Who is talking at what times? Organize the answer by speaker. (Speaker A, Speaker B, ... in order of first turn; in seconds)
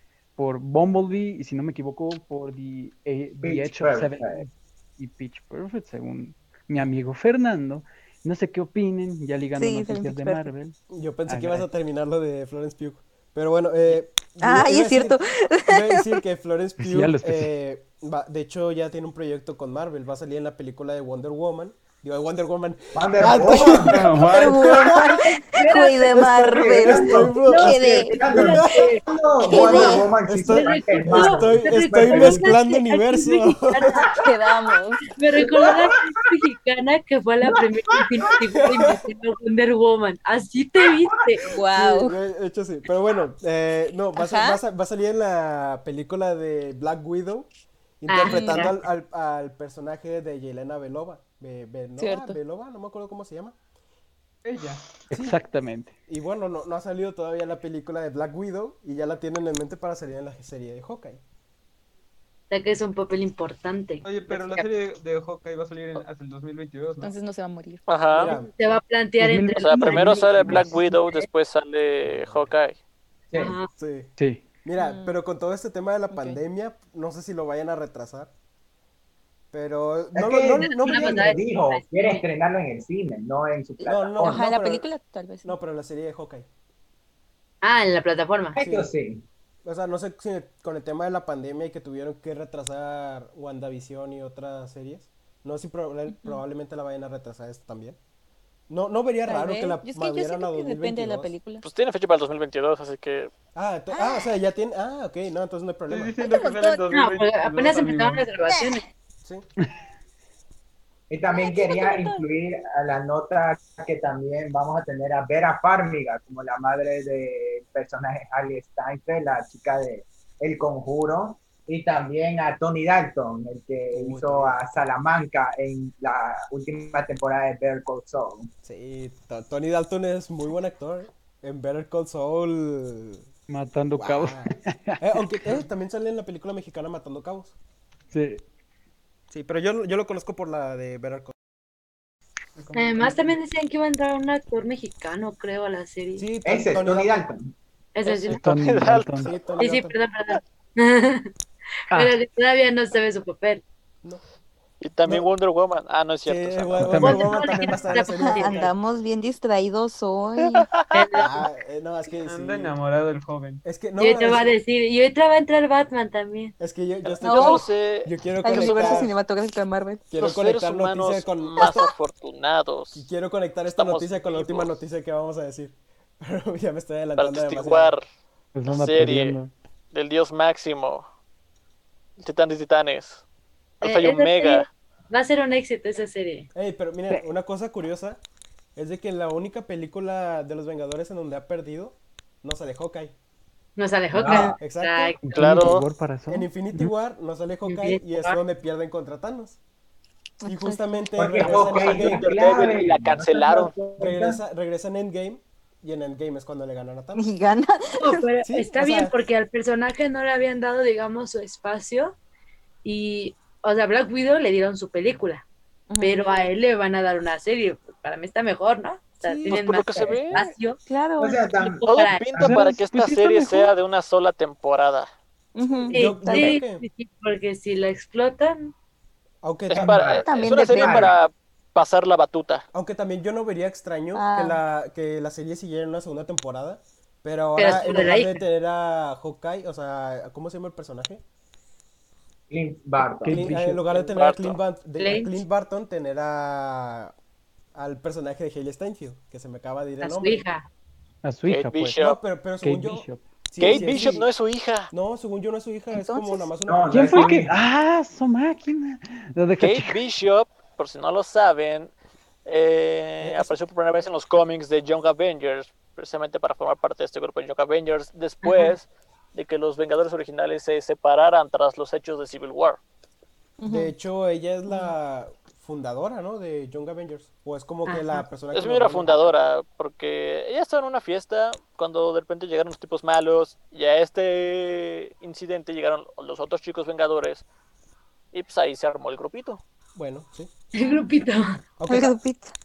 Speaker A: 0.4-10.8, 11.3-11.7, 16.8-17.5, 23.9-24.5, 55.1-55.9, 69.2-70.7, 74.2-74.4, 133.5-135.2, 138.1-138.4, 148.3-149.3, 156.8-157.4, 178.5-179.5, 195.2-196.9, 222.4-223.7, 243.2-243.8, 251.2-251.9, 252.6-253.2, 256.9-260.0
Speaker B: 3.4-4.5, 22.9-24.3, 26.2-32.6, 35.3-36.2, 37.9-38.4, 40.8-41.4, 80.2-84.4, 88.5-89.2, 111.1-128.5, 146.4-147.5, 194.1-194.5, 201.2-204.4, 221.2-222.7, 229.7-231.2, 242.5-243.5, 256.6-257.5
Speaker C: 9.6-10.5, 14.4-16.2, 24.2-28.2, 29.4-30.1, 34.1-35.1, 41.5-42.2, 44.1-44.6, 48.2-48.6, 52.0-52.4, 67.0-68.0, 74.8-75.2, 76.1-76.4, 84.2-85.5, 99.2-101.7, 103.9-104.3, 106.2-106.8, 108.5-108.8, 111.3-112.2, 158.0-160.7, 167.2-167.7, 168.4-170.0, 200.4-201.1, 207.1-208.2, 215.9-216.5, 220.8-221.4, 225.5-226.6, 230.2-231.1, 234.1-234.6, 255.9-256.5, 273.6-273.9, 274.7-274.9, 291.9-292.5
Speaker D: 10.9-25.1, 26.1-28.9, 29.6-34.1, 38.4-39.0, 41.7-47.5, 48.0-53.5, 55.1-55.4, 56.1-61.2, 68.1-68.5, 72.1-72.5, 73.8-74.1, 74.6-78.3, 79.5-81.3, 83.8-84.9, 85.4-86.5, 88.6-88.9, 89.6-98.0, 98.7-101.3, 103.5-106.2, 123.9-124.8, 128.6-133.2, 133.9-137.5, 139.3-141.3, 146.2-147.2, 149.2-149.9, 156.2-158.7, 161.2-162.8, 163.6-164.5, 166.6-169.1, 170.1-171.9, 172.9-178.0, 186.5-188.2, 188.8-193.1, 194.6-195.2, 196.3-199.6, 200.4-202.3, 204.0-207.2, 208.4-209.1, 219.2-219.6, 225.9-226.8, 229.4-230.0, 232.7-241.2, 243.2-247.1, 247.7-250.4, 252.0-254.3, 254.9-257.3, 263.2-263.6, 273.6-279.4, 289.9-290.5, 291.8-292.1
Speaker E: 25.3-26.3, 26.9-34.1, 35.1-41.5, 48.1-48.7, 62.5-64.6, 68.2-71.2, 73.3-73.7, 80.6-82.2, 87.6-88.6, 106.9-108.8, 142.7-146.3, 147.9-148.4, 149.6-151.3, 151.9-153.6, 156.9-158.6, 160.9-161.4, 164.0-166.5, 183.8-186.5, 193.8-195.4, 197.6-198.4, 208.0-212.2, 212.8-215.4, 216.0-220.8, 221.6-222.5, 225.9-228.7, 237.6-238.4, 245.0-245.4, 250.0-250.7, 268.4-268.7, 277.9-278.2, 290.7-291.6
Speaker F: 54.4-54.8, 64.0-67.1, 105.9-108.3, 142.6-143.4, 162.2-163.6
Speaker G: 67.9-68.3, 69.5-72.8, 101.6-103.3, 148.1-149.4, 154.8-157.0, 160.4-161.3, 167.0-169.1, 170.2-173.1, 173.7-174.8, 177.2-178.0, 178.7-179.4, 179.9-181.0, 182.2-183.2, 183.8-184.7, 195.3-195.8, 201.4-203.8, 219.5-220.4, 221.8-225.1, 229.7-232.6, 243.9-244.6, 251.4-252.2, 253.6-254.9, 259.6-261.9, 262.4-272.8, 278.5-287.4, 288.3-289.6